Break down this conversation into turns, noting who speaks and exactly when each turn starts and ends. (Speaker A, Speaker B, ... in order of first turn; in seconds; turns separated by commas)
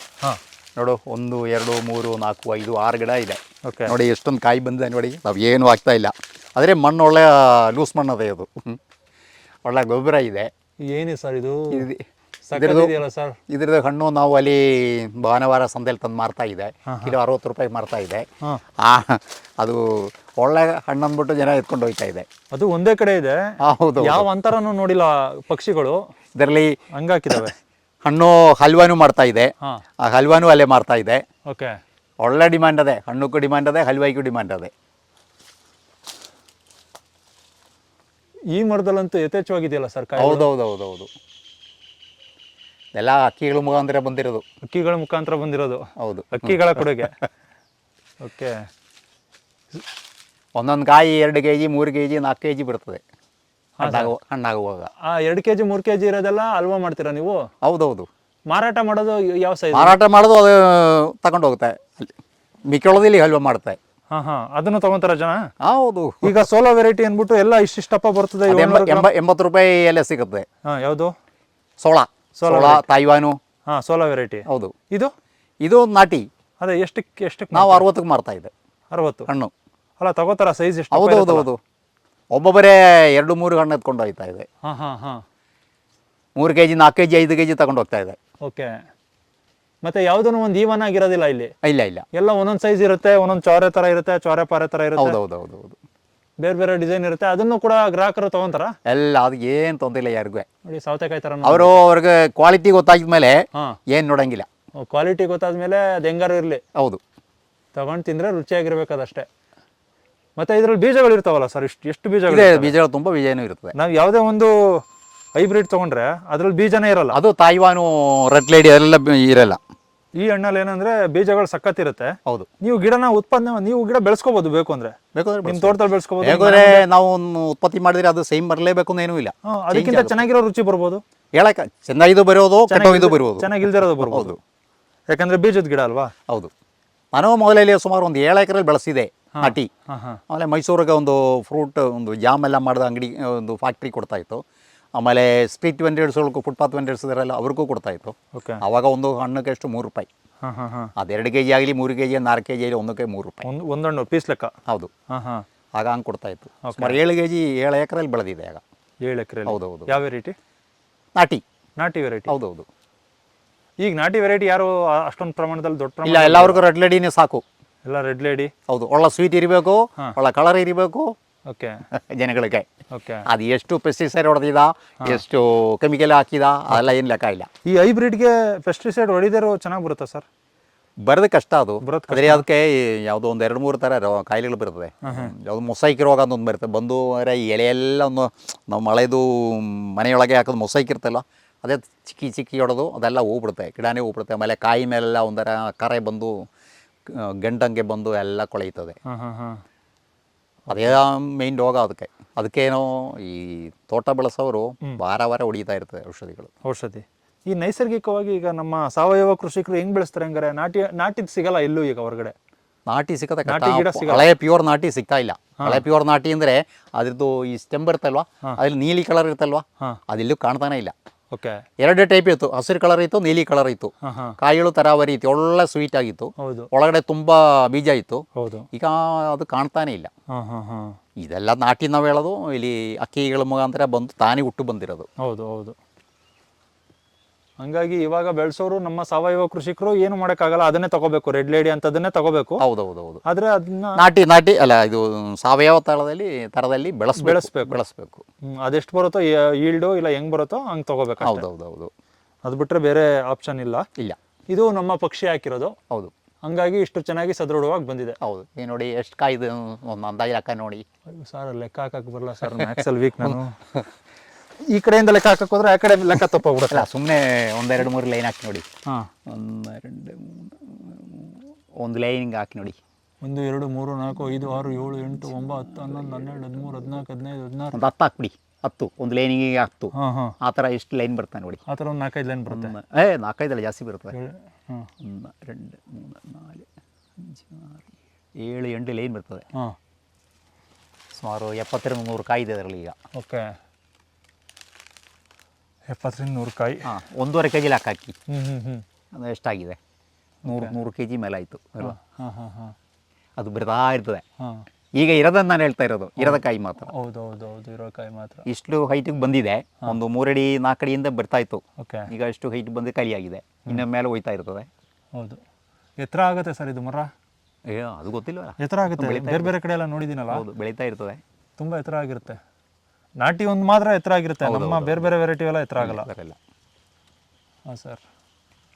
Speaker A: 0.8-8.8, Speaker B: 3.6-3.9, Speaker A: 9.6-10.5, Speaker B: 10.8-11.9, Speaker A: 11.7-12.9, Speaker B: 12.5-13.4, Speaker A: 13.5-18.2, Speaker B: 16.9-17.1, Speaker A: 18.8-22.2, Speaker B: 22.5-26.0, Speaker A: 23.6-24.3, Speaker A: 26.4-26.8, Speaker B: 26.9-27.5, Speaker A: 28.0-31.2, Speaker B: 31.5-31.7, Speaker A: 32.2-34.7, Speaker B: 38.5-40.5, Speaker A: 40.2-41.1, Speaker A: 42.9-44.4, Speaker B: 44.6-47.1, Speaker A: 46.0-46.9, Speaker B: 48.2-48.7, Speaker A: 50.5-53.0, Speaker B: 53.8-54.1, Speaker A: 53.8-54.9, Speaker B: 55.0-57.5, Speaker A: 57.6-58.1, Speaker B: 58.5-60.0, Speaker A: 59.7-62.1, Speaker A: 62.7-63.8, Speaker B: 64.1-65.4, Speaker A: 65.6-66.3, Speaker B: 66.2-69.1, Speaker A: 68.5-70.5, Speaker B: 70.7-71.1, Speaker A: 71.8-73.4, Speaker B: 72.4-72.8, Speaker B: 73.7-75.1, Speaker A: 74.5-74.7, Speaker A: 75.6-76.3, Speaker B: 76.6-77.9, Speaker A: 77.5-78.5, Speaker B: 78.9-79.3, Speaker A: 79.3-79.5, Speaker B: 80.0-81.5, Speaker A: 80.9-81.6, Speaker A: 82.3-84.5, Speaker B: 84.6-85.2, Speaker A: 86.4-88.2, Speaker B: 88.4-88.8, Speaker B: 89.8-91.5, Speaker A: 91.6-92.0, Speaker B: 92.1-95.2, Speaker A: 95.0-95.8, Speaker B: 96.4-98.8, Speaker A: 98.8-100.5, Speaker B: 100.7-101.8, Speaker A: 101.4-104.5, Speaker B: 104.8-106.6, Speaker A: 106.8-107.0, Speaker B: 107.7-109.3, Speaker B: 110.4-112.7, Speaker A: 112.3-113.8, Speaker B: 113.7-114.8, Speaker B: 115.3-117.2, Speaker A: 117.1-119.6, Speaker B: 120.2-126.8, Speaker A: 125.1-130.2, Speaker B: 129.4-131.0, Speaker A: 131.3-134.4, Speaker B: 132.7-134.3, Speaker B: 135.1-136.1, Speaker A: 137.1-139.7, Speaker B: 139.3-140.2, Speaker A: 140.3-144.4, Speaker A: 145.0-150.1, Speaker B: 148.3-148.6, Speaker B: 150.4-150.9, Speaker A: 151.0-153.5, Speaker B: 153.4-154.5, Speaker B: 155.1-155.4, Speaker A: 155.8-158.6, Speaker B: 156.6-157.0, Speaker B: 159.0-160.3, Speaker A: 159.4-159.9, Speaker A: 161.2-161.4, Speaker B: 161.8-162.3, Speaker A: 162.3-162.7, Speaker B: 163.8-166.6, Speaker A: 166.0-167.4, Speaker B: 167.8-168.5, Speaker A: 168.7-171.1, Speaker B: 171.5-171.8, Speaker A: 171.9-172.7, Speaker B: 172.9-173.2, Speaker A: 173.2-177.5, Speaker B: 177.7-180.2, Speaker A: 181.0-196.4, Speaker B: 181.8-182.4, Speaker B: 185.0-185.3, Speaker A: 197.1-198.9, Speaker B: 199.1-199.6, Speaker B: 200.7-200.9, Speaker A: 200.7-206.5, Speaker B: 206.6-212.3, Speaker A: 212.9-220.9, Speaker B: 213.4-214.3, Speaker B: 215.6-215.8, Speaker B: 221.3-221.6, Speaker A: 221.8-230.1, Speaker B: 224.0-224.4, Speaker B: 226.4-226.7, Speaker B: 228.3-228.7, Speaker B: 230.3-231.0, Speaker A: 231.2-235.1, Speaker B: 235.2-235.8, Speaker B: 237.6-242.6, Speaker A: 242.6-243.2, Speaker B: 243.2-244.0, Speaker A: 244.0-248.2, Speaker B: 247.2-247.8, Speaker B: 248.5-251.5, Speaker A: 251.2-251.9, Speaker B: 252.4-253.8, Speaker B: 254.5-255.7, Speaker B: 256.4-258.2, Speaker A: 258.2-260.8, Speaker B: 261.1-263.6, Speaker A: 262.5-263.8, Speaker B: 264.6-266.9, Speaker A: 266.7-268.6, Speaker A: 269.2-272.8, Speaker B: 273.2-277.8, Speaker A: 277.7-281.6, Speaker B: 279.9-280.4, Speaker B: 281.7-282.7, Speaker A: 282.5-284.1, Speaker B: 284.1-284.9, Speaker A: 285.0-286.6, Speaker A: 287.2-287.9, Speaker A: 288.4-289.4, Speaker A: 291.1-292.9, Speaker B: 293.1-293.5, Speaker B: 295.9-296.9, Speaker A: 296.8-298.1, Speaker B: 298.3-298.8, Speaker A: 299.1-299.8, Speaker B: 300.4-300.7, Speaker A: 300.4-301.9, Speaker B: 301.8-302.7, Speaker A: 303.4-304.2, Speaker B: 304.4-304.6, Speaker A: 304.9-306.9, Speaker B: 306.2-308.4, Speaker A: 308.4-314.7, Speaker B: 311.8-312.1, Speaker B: 315.1-315.4, Speaker B: 316.0-317.1, Speaker A: 317.7-319.5, Speaker B: 318.6-320.4, Speaker A: 320.3-321.2, Speaker B: 321.6-322.4, Speaker B: 323.2-326.1, Speaker A: 324.4-325.1, Speaker A: 325.8-326.4, Speaker B: 327.7-328.0